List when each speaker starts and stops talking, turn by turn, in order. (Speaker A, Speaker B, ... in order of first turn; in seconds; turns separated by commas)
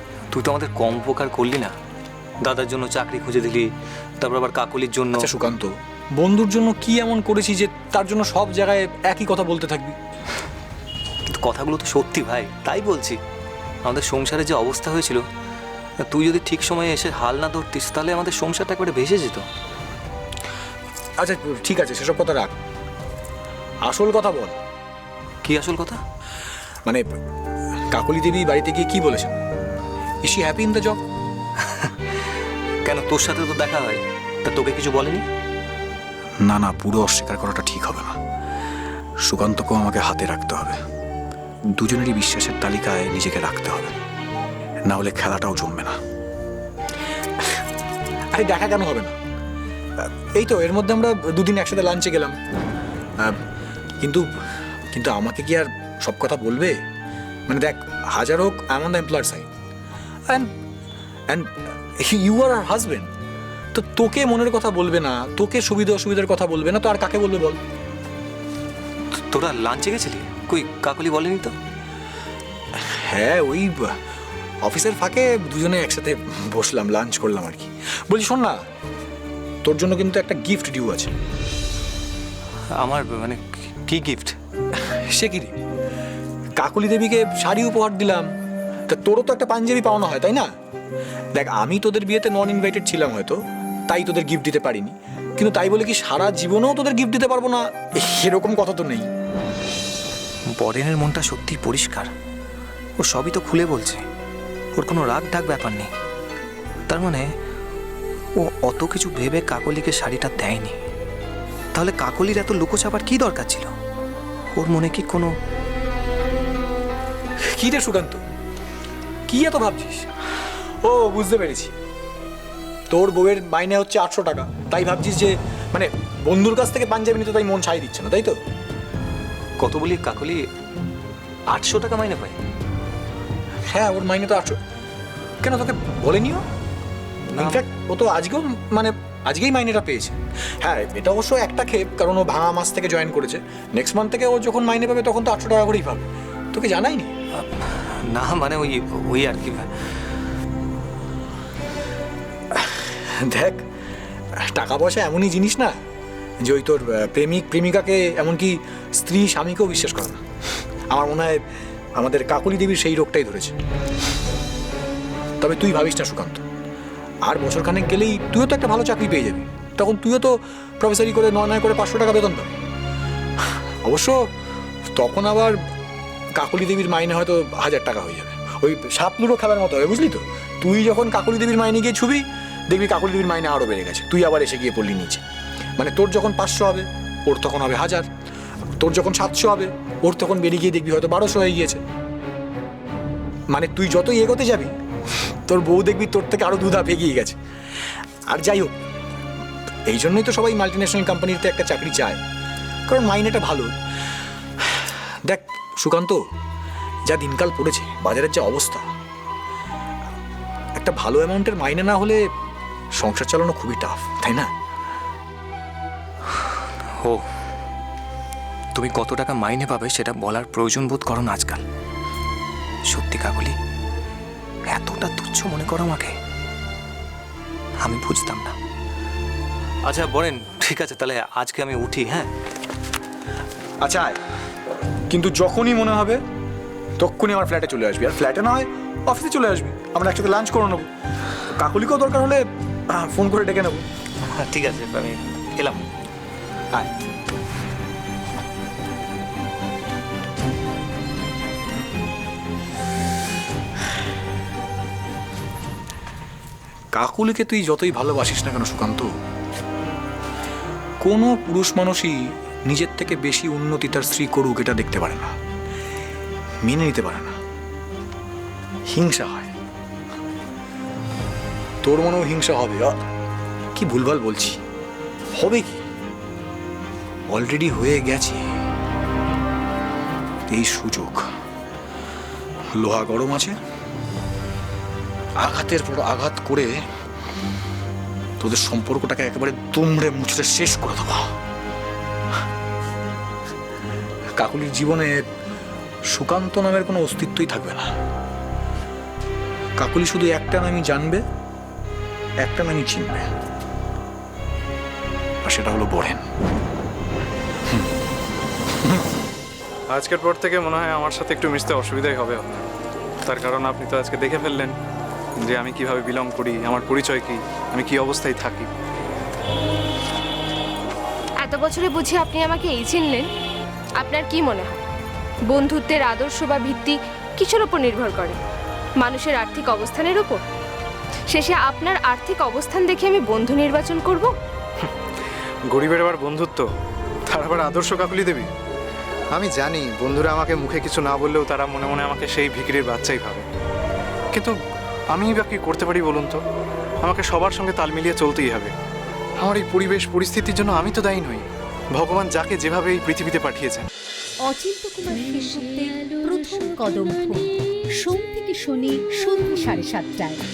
Speaker A: 0.3-1.7, Speaker A: 2.4-3.7, Speaker A: 4.2-5.3, Speaker B: 5.2-10.0, Speaker A: 11.3-13.2, Speaker A: 13.8-15.2, Speaker A: 16.1-19.4, Speaker B: 21.2-22.5, Speaker B: 23.9-24.6, Speaker A: 25.4-26.0, Speaker B: 27.9-29.4, Speaker B: 30.2-31.0, Speaker A: 31.6-31.9, Speaker A: 32.8-35.2, Speaker B: 36.4-38.1, Speaker B: 39.2-40.8, Speaker B: 41.7-44.0, Speaker B: 44.9-46.0, Speaker B: 48.3-49.1, Speaker B: 50.0-52.4, Speaker B: 54.0-54.3, Speaker B: 54.9-56.8, Speaker B: 57.5-59.5, Speaker B: 61.3-63.1, Speaker B: 63.7-67.6, Speaker A: 69.1-71.5, Speaker B: 72.8-74.0, Speaker B: 74.6-78.6, Speaker B: 79.7-81.1, Speaker A: 82.8-84.4, Speaker B: 84.8-85.6, Speaker B: 86.6-88.3, Speaker B: 88.9-90.5, Speaker B: 91.3-99.1, Speaker A: 100.6-102.1, Speaker A: 103.0-104.0, Speaker A: 104.8-105.9, Speaker A: 106.9-107.3, Speaker A: 108.4-110.8, Speaker A: 111.8-113.7, Speaker A: 114.5-115.3, Speaker B: 117.5-118.2, Speaker B: 119.3-120.1, Speaker B: 120.8-121.7, Speaker B: 122.9-128.4, Speaker A: 129.6-130.4, Speaker A: 131.5-132.4, Speaker B: 133.7-134.6, Speaker B: 135.4-136.4, Speaker A: 137.3-137.6, Speaker B: 137.3-147.1, Speaker A: 147.3-149.7, Speaker B: 152.5-153.6, Speaker B: 154.4-155.7, Speaker B: 156.4-160.2, Speaker B: 160.9-161.4, Speaker B: 162.0-163.5, Speaker B: 165.4-166.4, Speaker B: 167.2-172.5, Speaker B: 173.8-174.2, Speaker B: 174.9-175.6, Speaker B: 176.3-185.2, Speaker B: 185.8-188.1, Speaker B: 188.8-191.8, Speaker B: 193.5-194.7, Speaker B: 195.5-197.3, Speaker B: 198.3-198.7, Speaker B: 199.9-202.2, Speaker B: 202.9-203.7, Speaker B: 204.7-206.2, Speaker B: 207.1-208.8, Speaker B: 210.8-212.2, Speaker B: 213.0-214.5, Speaker A: 217.0-217.2, Speaker A: 218.7-221.6, Speaker A: 222.9-223.5, Speaker A: 224.7-226.1, Speaker A: 227.8-228.5, Speaker A: 229.8-232.3, Speaker B: 233.8-234.2, Speaker B: 235.1-236.2, Speaker B: 237.0-240.9, Speaker B: 241.5-243.8, Speaker A: 244.3-245.8, Speaker B: 256.9-259.1, Speaker B: 261.0-265.3, Speaker B: 266.6-267.4, Speaker B: 268.9-269.5, Speaker B: 271.8-273.0, Speaker B: 273.8-274.6, Speaker B: 275.4-275.8, Speaker B: 277.3-278.5, Speaker B: 280.5-281.3, Speaker B: 282.8-283.6, Speaker B: 285.4-286.8, Speaker B: 288.4-291.3, Speaker B: 294.4-295.2, Speaker B: 296.1-297.9, Speaker B: 299.8-301.2, Speaker B: 302.4-303.3, Speaker B: 305.4-306.2, Speaker B: 308.8-309.1, Speaker C: 309.9-312.7, Speaker C: 313.2-314.8, Speaker C: 315.4-318.7, Speaker D: 321.4-323.3, Speaker D: 324.0-324.8, Speaker D: 325.5-328.4, Speaker D: 329.0-330.4, Speaker D: 331.3-334.3, Speaker C: 335.7-336.7, Speaker C: 337.3-338.5, Speaker C: 339.3-343.5, Speaker C: 345.1-346.4, Speaker C: 347.0-348.8, Speaker C: 349.4-351.5, Speaker C: 352.0-353.9, Speaker E: 354.4-360.4